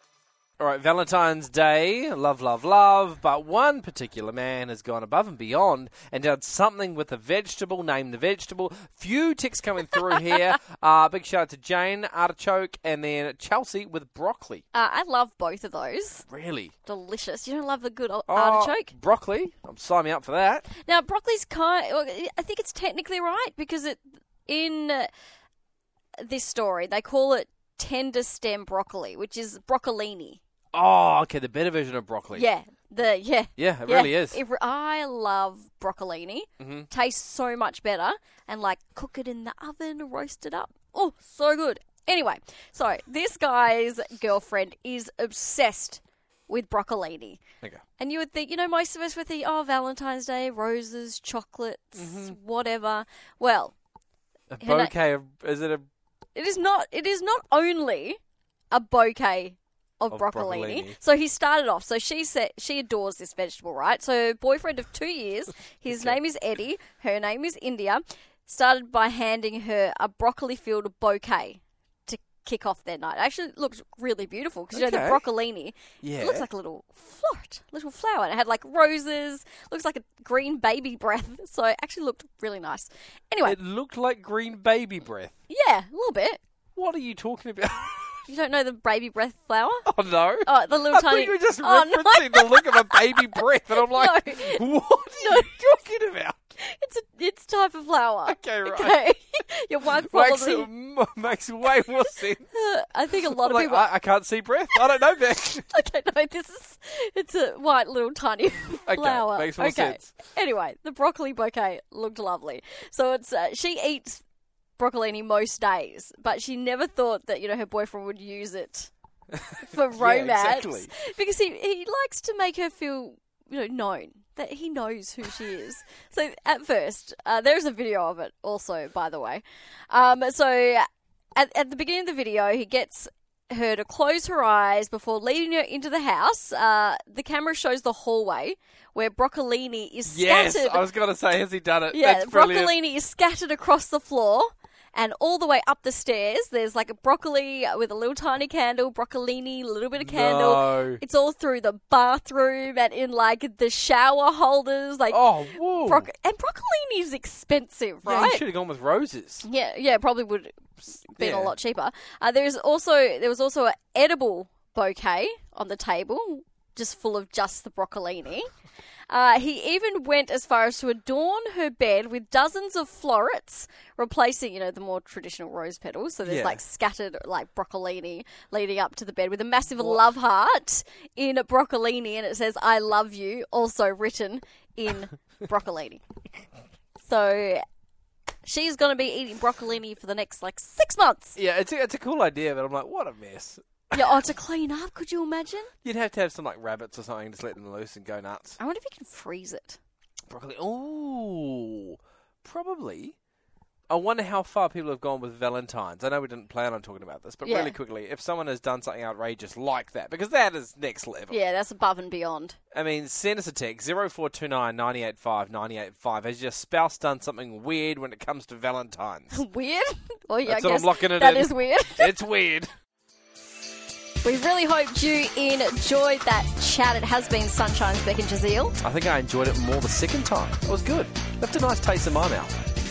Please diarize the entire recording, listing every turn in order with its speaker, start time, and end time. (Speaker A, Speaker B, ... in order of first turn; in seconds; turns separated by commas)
Speaker A: 0.6-14.6, Speaker B: 14.7-16.3, Speaker A: 16.3-16.7, Speaker B: 16.8-18.9, Speaker A: 18.3-20.7, Speaker B: 20.7-25.1, Speaker B: 26.2-30.4, Speaker A: 30.7-32.5, Speaker B: 32.3-47.4, Speaker A: 33.6-34.4, Speaker A: 36.6-36.9, Speaker B: 48.0-53.7, Speaker A: 52.0-52.4, Speaker A: 54.5-55.8, Speaker B: 54.6-54.9, Speaker B: 56.4-58.2, Speaker B: 58.7-83.6, Speaker A: 60.1-61.0, Speaker A: 74.7-75.2, Speaker A: 76.0-76.5, Speaker A: 83.4-85.3, Speaker B: 85.5-86.4, Speaker A: 86.8-88.1, Speaker B: 88.3-89.9, Speaker A: 89.9-96.4, Speaker B: 90.5-93.2, Speaker B: 93.8-94.6, Speaker B: 95.2-95.6, Speaker B: 96.6-100.7, Speaker A: 98.3-99.0, Speaker A: 100.0-102.5, Speaker B: 102.5-103.9, Speaker A: 103.3-105.7, Speaker B: 105.7-114.2, Speaker A: 108.9-110.1, Speaker B: 114.8-118.9, Speaker A: 119.5-120.9, Speaker B: 119.6-140.8, Speaker A: 140.1-142.7, Speaker B: 141.9-158.4, Speaker A: 150.0-151.0, Speaker A: 155.1-156.1, Speaker A: 158.1-159.5, Speaker B: 159.4-168.5, Speaker A: 161.2-161.6, Speaker B: 169.1-186.0, Speaker A: 176.2-176.6, Speaker A: 179.8-180.1, Speaker B: 187.0-187.6, Speaker B: 188.4-191.4, Speaker A: 191.4-194.1, Speaker B: 193.9-195.7, Speaker A: 195.8-198.6, Speaker B: 198.6-199.8, Speaker A: 200.3-203.2, Speaker A: 203.9-211.4, Speaker B: 207.4-207.8, Speaker B: 211.3-212.6, Speaker A: 212.7-219.4, Speaker B: 219.3-222.1, Speaker A: 220.4-222.7, Speaker B: 224.2-228.8, Speaker A: 228.8-232.6